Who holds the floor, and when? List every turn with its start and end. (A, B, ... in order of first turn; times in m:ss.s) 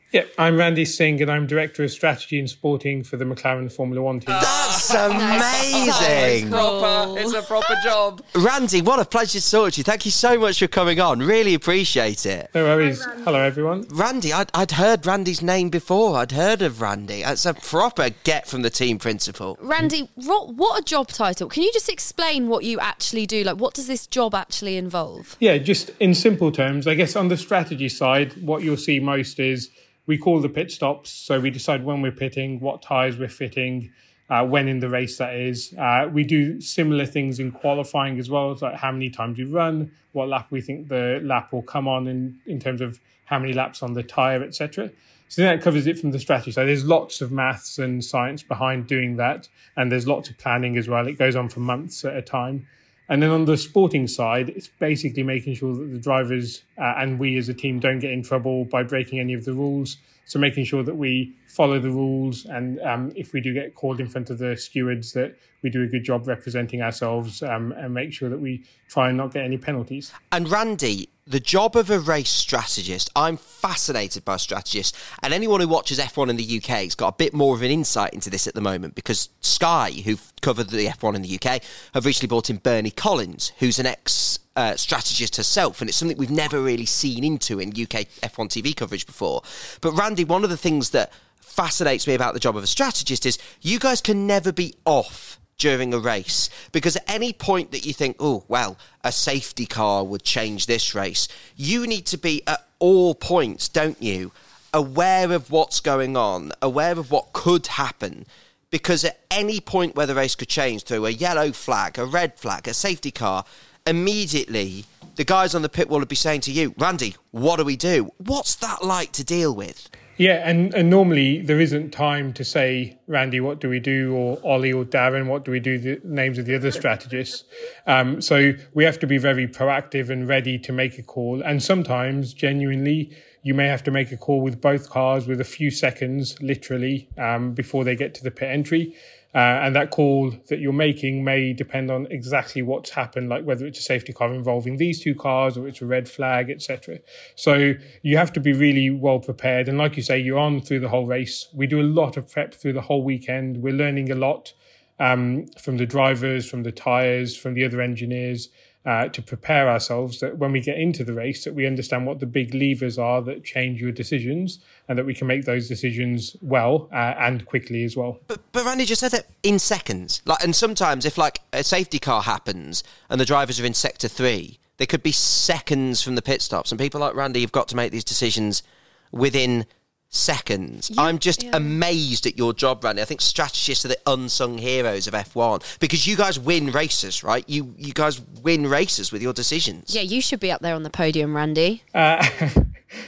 0:00.1-0:04.5 A
0:04.3-0:08.3 B
0:04.4-0:06.6 C
0:05.1-0:07.4 D
0:08.3-0:12.5 C
0:12.5-0:13.9 A
0:13.9-0:19.6 C
0:19.6-0:25.4 D
0:25.4-1:10.1 A
1:10.3-1:59.9 C
2:00.2-2:48.2 A
2:48.3-3:09.9 C
3:00.9-3:01.7 D
3:09.9-3:11.8 D
3:11.9-3:12.7 A